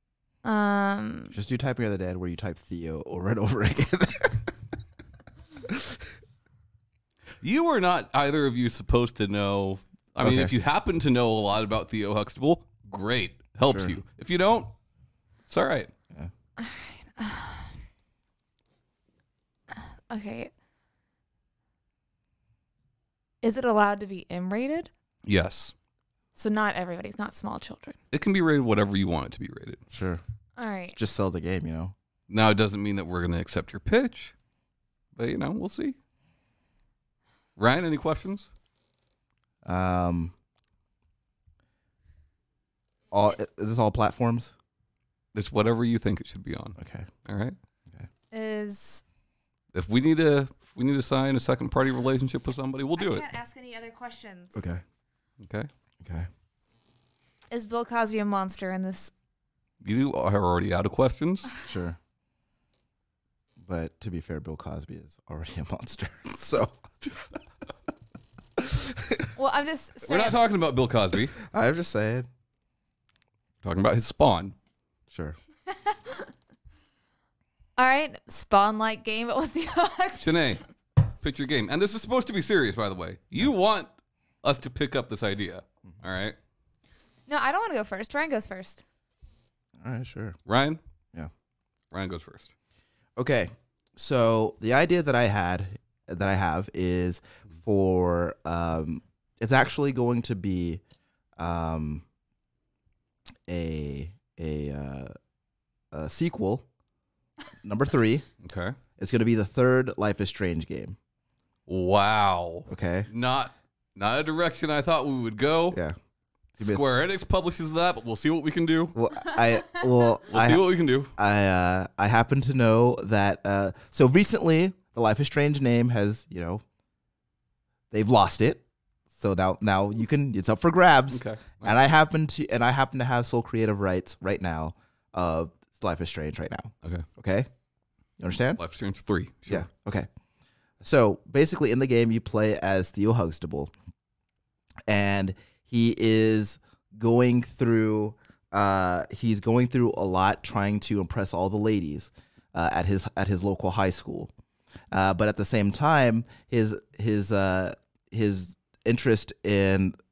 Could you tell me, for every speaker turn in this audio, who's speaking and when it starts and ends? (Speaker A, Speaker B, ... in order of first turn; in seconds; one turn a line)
Speaker A: 0.4-1.4
Speaker B: 1.3-4.5
Speaker B: 5.6-6.0
Speaker C: 7.4-14.7
Speaker B: 10.2-10.5
Speaker B: 13.7-13.9
Speaker C: 15.5-15.9
Speaker A: 16.6-17.7
Speaker A: 19.8-20.5
Speaker A: 23.4-24.9
Speaker C: 25.2-25.7
Speaker A: 26.4-28.0
Speaker C: 28.1-29.8
Speaker B: 29.9-30.2
Speaker A: 30.6-31.0
Speaker B: 30.9-31.9
Speaker C: 32.3-34.3
Speaker C: 35.1-36.0
Speaker C: 37.6-38.5
Speaker B: 39.6-40.3
Speaker B: 43.1-44.5
Speaker C: 45.3-47.6
Speaker B: 46.8-47.1
Speaker A: 48.3-49.0
Speaker C: 49.7-53.2
Speaker A: 53.0-54.7
Speaker B: 54.5-54.8
Speaker C: 55.4-55.7
Speaker B: 56.0-56.3
Speaker A: 57.5-59.1
Speaker C: 59.8-61.5
Speaker B: 61.6-62.0
Speaker B: 63.6-66.8
Speaker B: 68.6-69.3
Speaker A: 69.4-70.4
Speaker C: 70.1-71.4
Speaker B: 71.4-72.3
Speaker C: 73.6-74.5
Speaker B: 75.1-75.4
Speaker A: 75.7-76.3
Speaker A: 77.8-80.4
Speaker C: 80.2-83.9
Speaker C: 84.4-86.4
Speaker A: 87.3-88.8
Speaker B: 89.8-90.4
Speaker C: 90.5-90.8
Speaker C: 91.9-92.5
Speaker B: 93.2-100.8
Speaker B: 101.4-102.0
Speaker B: 103.5-105.1
Speaker B: 105.9-106.7
Speaker B: 107.6-108.3
Speaker C: 108.4-108.8
Speaker B: 109.0-111.0
Speaker C: 111.7-115.8
Speaker B: 112.7-113.1
Speaker C: 116.6-119.0
Speaker B: 119.0-126.6
Speaker C: 120.3-121.1
Speaker B: 127.9-128.6
Speaker B: 129.1-137.5
Speaker C: 131.1-131.8
Speaker B: 138.2-138.6
Speaker C: 138.6-139.7
Speaker B: 139.5-140.1
Speaker B: 140.8-143.7
Speaker B: 144.9-154.3
Speaker B: 154.9-160.0